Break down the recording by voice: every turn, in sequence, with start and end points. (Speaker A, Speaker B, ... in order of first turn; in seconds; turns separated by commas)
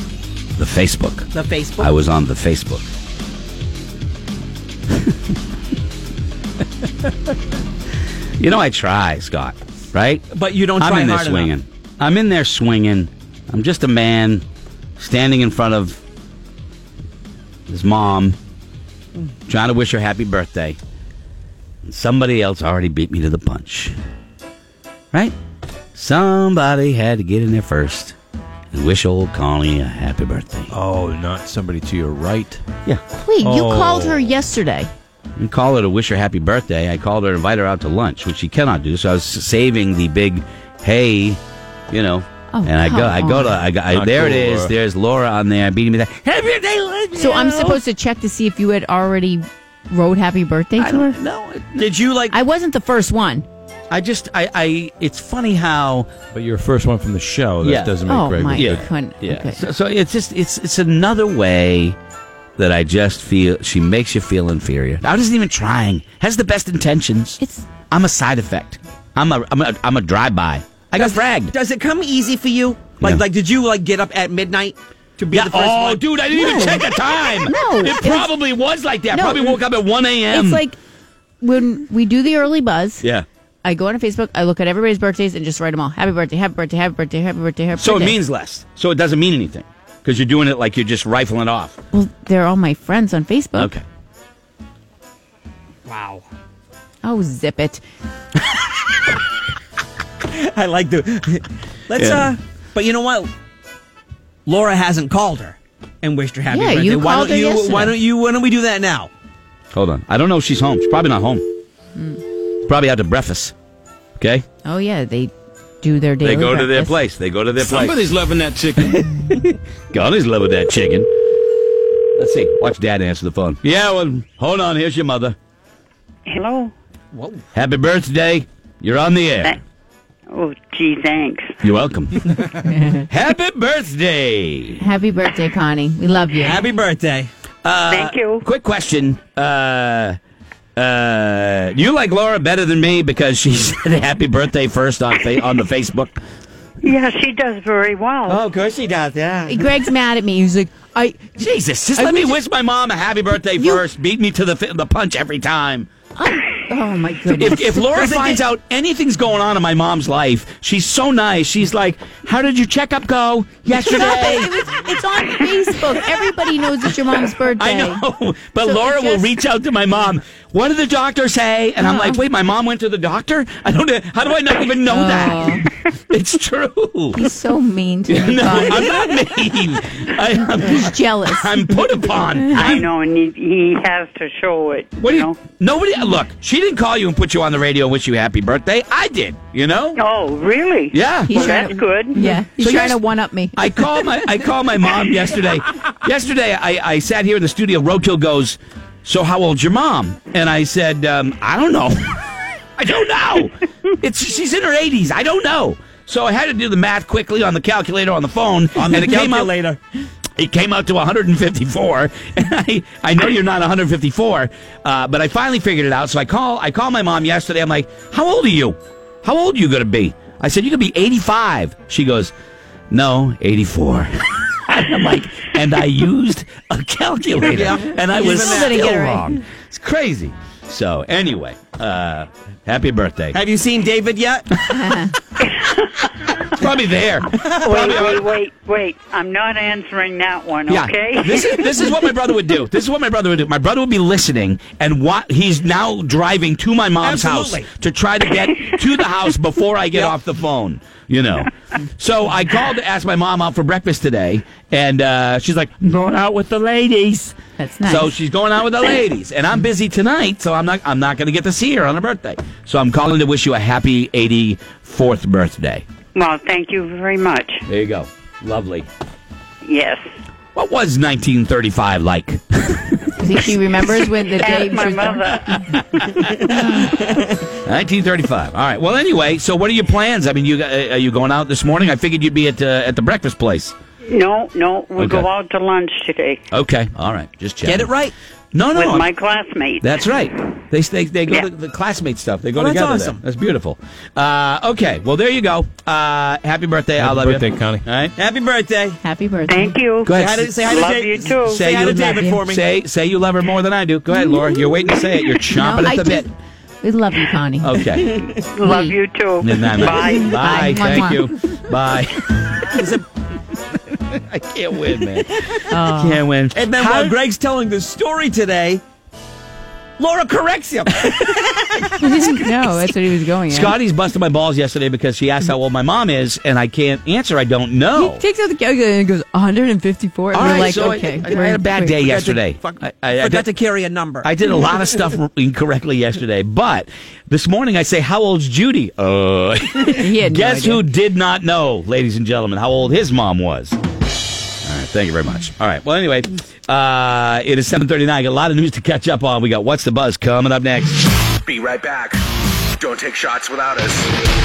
Speaker A: 0.6-2.9, Speaker B: 1.3-1.9, Speaker A: 8.4-10.2, Speaker B: 10.3-11.5, Speaker A: 10.8-14.4, Speaker A: 15.0-16.0, Speaker A: 17.7-18.4, Speaker A: 19.5-20.8, Speaker A: 21.8-23.9, Speaker A: 25.9-28.2, Speaker A: 28.7-30.7, Speaker C: 30.7-32.6, Speaker D: 33.1-34.9, Speaker C: 33.4-34.2, Speaker A: 35.4-41.4, Speaker A: 41.9-47.8, Speaker D: 42.5-43.6, Speaker C: 43.9-44.7, Speaker D: 47.1-51.2, Speaker A: 50.8-51.9, Speaker B: 51.8-52.4, Speaker D: 52.3-53.5, Speaker A: 53.9-56.1, Speaker C: 56.3-58.9, Speaker A: 57.6-62.0, Speaker D: 58.1-59.6, Speaker A: 62.6-71.5, Speaker D: 67.4-67.7, Speaker B: 71.0-76.0, Speaker A: 75.3-80.6, Speaker D: 76.3-76.8, Speaker D: 77.4-78.3, Speaker D: 79.1-79.6, Speaker D: 80.3-80.8, Speaker D: 81.4-83.0, Speaker D: 83.6-88.2, Speaker A: 87.8-91.8, Speaker D: 91.9-93.7, Speaker A: 93.5-93.8, Speaker B: 95.8-96.2, Speaker D: 97.0-97.8, Speaker B: 100.3-103.3, Speaker A: 102.0-102.3, Speaker B: 104.5-109.1, Speaker D: 106.5-108.0, Speaker A: 109.7-111.4, Speaker A: 112.7-113.5, Speaker A: 114.2-114.4, Speaker D: 114.6-117.0, Speaker A: 116.2-118.1, Speaker C: 117.6-119.0, Speaker A: 118.8-121.1, Speaker A: 122.1-125.3, Speaker E: 126.3-126.7, Speaker B: 127.1-127.4, Speaker A: 127.5-129.6, Speaker E: 130.3-131.5, Speaker A: 131.6-132.6, Speaker D: 132.7-133.0, Speaker A: 133.1-134.8, Speaker D: 134.8-136.6, Speaker B: 136.4-137.3, Speaker A: 137.6-140.2, Speaker E: 137.9-138.4, Speaker A: 140.8-146.2, Speaker E: 146.8-148.4, Speaker B: 148.3-149.5, Speaker D: 149.5-151.3, Speaker A: 151.3-155.9, Speaker D: 151.9-152.3, Speaker D: 153.6-153.8, Speaker D: 156.2-158.4, Speaker A: 157.3-164.5, Speaker D: 163.7-168.0, Speaker A: 167.6-177.2, Speaker D: 168.6-169.3, Speaker D: 171.8-172.2, Speaker D: 174.9-175.6, Speaker D: 177.1-179.3, Speaker A: 178.1-182.9, Speaker D: 180.4-181.8, Speaker E: 182.5-185.4, Speaker A: 185.0-190.0, Speaker E: 189.9-192.2, Speaker A: 190.9-193.0, Speaker D: 191.2-194.3, Speaker A: 193.5-209.5, Speaker B: 208.8-209.8, Speaker A: 210.4-222.3, Speaker A: 222.9-233.4, Speaker B: 227.4-228.8, Speaker D: 228.1-229.4, Speaker B: 233.3-234.5, Speaker D: 234.7-235.1, Speaker E: 235.5-236.0, Speaker A: 236.4-238.3, Speaker B: 237.3-238.1, Speaker E: 237.6-242.0, Speaker A: 240.7-265.8, Speaker B: 247.0-247.7, Speaker D: 257.6-258.1, Speaker E: 266.1-267.6, Speaker A: 267.7-268.9, Speaker E: 269.6-270.0, Speaker A: 270.5-273.3, Speaker D: 273.2-275.4, Speaker E: 274.4-275.6, Speaker A: 275.5-283.7, Speaker E: 284.1-286.4, Speaker A: 285.0-285.3, Speaker A: 286.5-287.9, Speaker B: 287.6-288.1, Speaker A: 288.5-289.1, Speaker E: 288.7-289.8, Speaker A: 289.8-298.1, Speaker B: 292.5-293.2, Speaker C: 297.0-297.8, Speaker B: 298.1-299.0, Speaker D: 299.0-299.8, Speaker E: 299.5-301.6, Speaker A: 300.0-300.5, Speaker B: 300.1-302.6, Speaker A: 301.4-306.3, Speaker D: 305.5-306.3, Speaker D: 306.8-307.8, Speaker A: 307.6-308.2, Speaker E: 308.2-310.7, Speaker D: 308.6-308.9, Speaker A: 309.4-312.7, Speaker D: 309.9-311.3, Speaker B: 312.7-313.0, Speaker A: 313.9-317.1, Speaker D: 315.7-316.2, Speaker B: 316.5-318.8, Speaker B: 320.0-322.0, Speaker D: 322.0-323.8, Speaker A: 323.5-328.2, Speaker D: 327.9-332.0, Speaker A: 330.3-333.5, Speaker B: 330.4-330.7, Speaker B: 332.0-334.3, Speaker A: 334.2-343.8, Speaker D: 339.9-340.8, Speaker A: 344.6-351.1, Speaker F: 351.5-352.2, Speaker F: 352.8-354.0